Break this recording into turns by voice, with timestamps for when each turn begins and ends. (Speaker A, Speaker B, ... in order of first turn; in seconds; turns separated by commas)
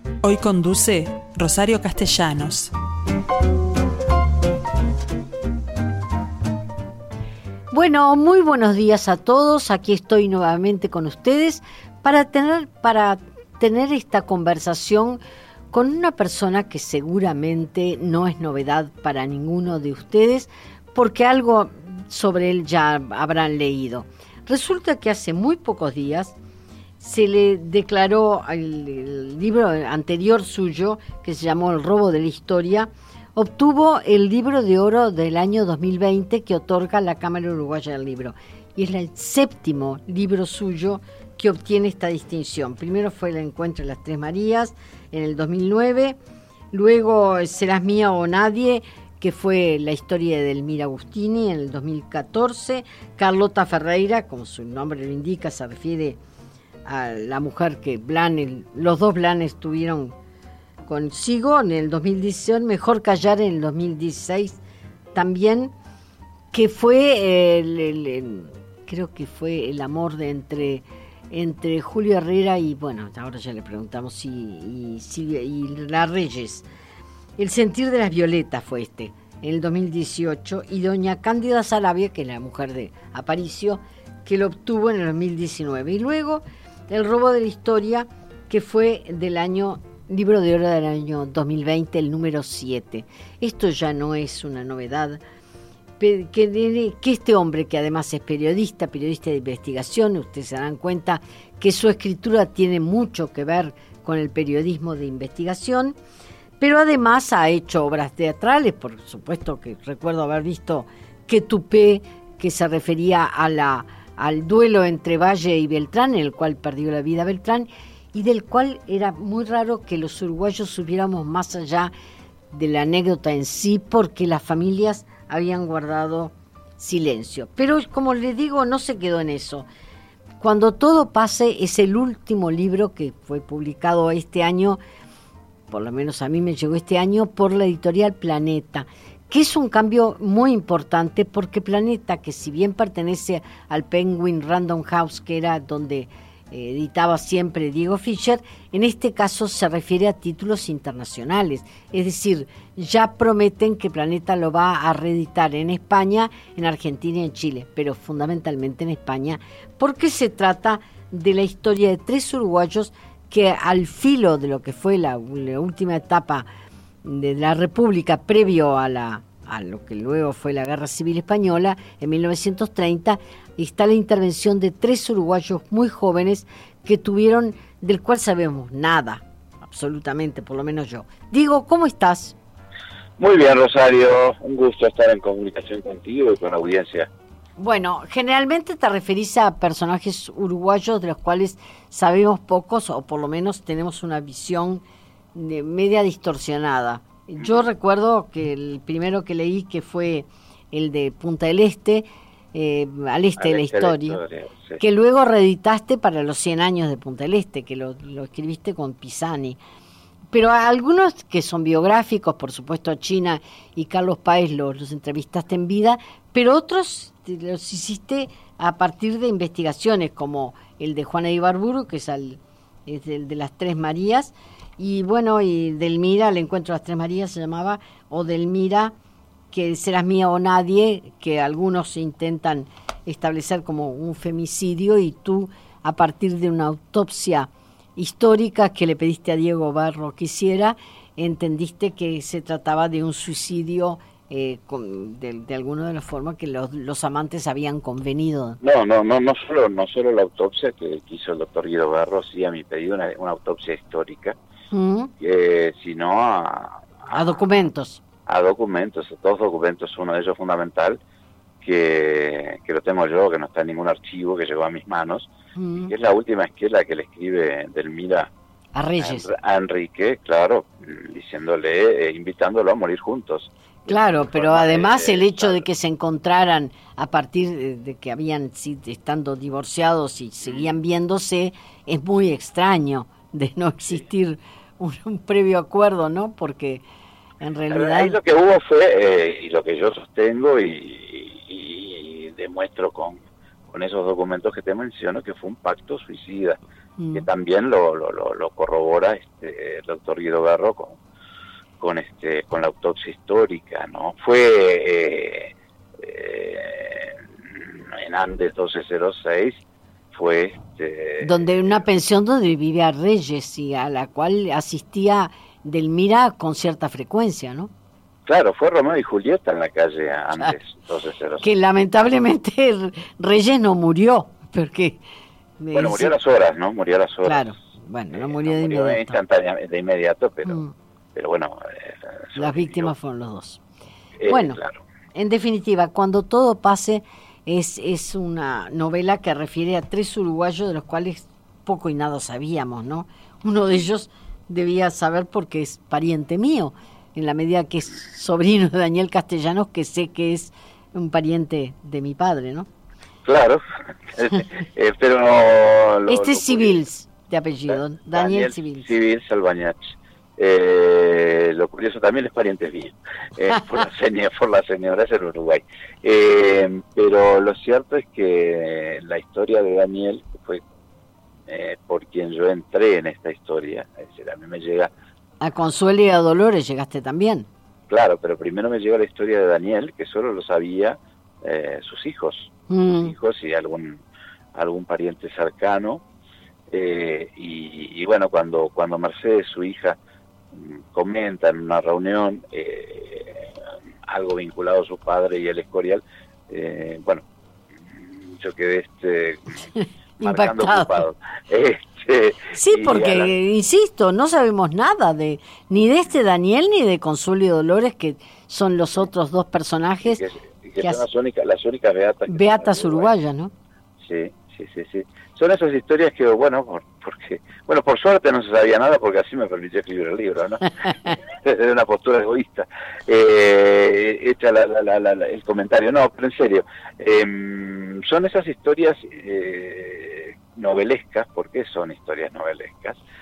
Speaker A: 0.2-2.7, Speaker B: 7.7-15.2, Speaker B: 15.7-26.4, Speaker B: 27.0-46.2, Speaker B: 46.7-56.2, Speaker B: 56.9-60.1, Speaker B: 60.9-64.6, Speaker B: 65.2-65.7, Speaker B: 66.5-76.7, Speaker B: 77.4-95.2, Speaker B: 96.0-106.0, Speaker B: 106.6-121.9, Speaker B: 122.5-129.7, Speaker B: 130.4-134.8, Speaker B: 135.7-166.4, Speaker B: 167.0-182.4, Speaker C: 183.2-187.1, Speaker B: 187.6-194.8, Speaker B: 195.3-204.2, Speaker C: 197.4-197.7, Speaker C: 203.4-204.8, Speaker B: 204.8-209.6, Speaker B: 210.3-228.9, Speaker B: 229.5-248.6, Speaker C: 248.6-254.4, Speaker B: 254.7-255.1, Speaker C: 255.2-257.2, Speaker B: 257.1-258.0, Speaker C: 258.3-261.0, Speaker C: 261.6-265.3, Speaker B: 265.6-265.9, Speaker C: 265.9-268.3, Speaker B: 268.8-269.3, Speaker C: 269.0-275.6, Speaker B: 273.9-286.8, Speaker C: 280.4-280.8, Speaker B: 287.4-288.2, Speaker C: 287.7-296.6, Speaker B: 297.0-297.3, Speaker C: 297.1-301.0, Speaker C: 301.8-309.6, Speaker C: 310.1-311.9, Speaker B: 311.2-317.7, Speaker C: 318.3-321.5, Speaker B: 321.4-325.0, Speaker B: 325.6-326.1, Speaker C: 325.7-327.5, Speaker B: 327.2-329.2, Speaker C: 328.1-330.6, Speaker B: 330.5-330.7, Speaker C: 331.1-332.9, Speaker B: 332.4-333.6, Speaker C: 334.2-334.8, Speaker B: 334.3-334.6, Speaker B: 335.1-352.7, Speaker C: 353.2-356.8, Speaker B: 356.1-358.9, Speaker C: 357.7-370.6, Speaker C: 371.5-374.9, Speaker B: 375.4-377.5, Speaker C: 377.9-384.0, Speaker B: 382.7-383.1, Speaker C: 384.6-386.0, Speaker C: 386.7-390.0, Speaker C: 390.5-399.7, Speaker B: 399.8-401.0, Speaker C: 400.2-403.3, Speaker B: 402.5-410.2, Speaker C: 410.0-413.1, Speaker B: 410.8-411.1, Speaker B: 412.3-413.5, Speaker C: 414.0-433.0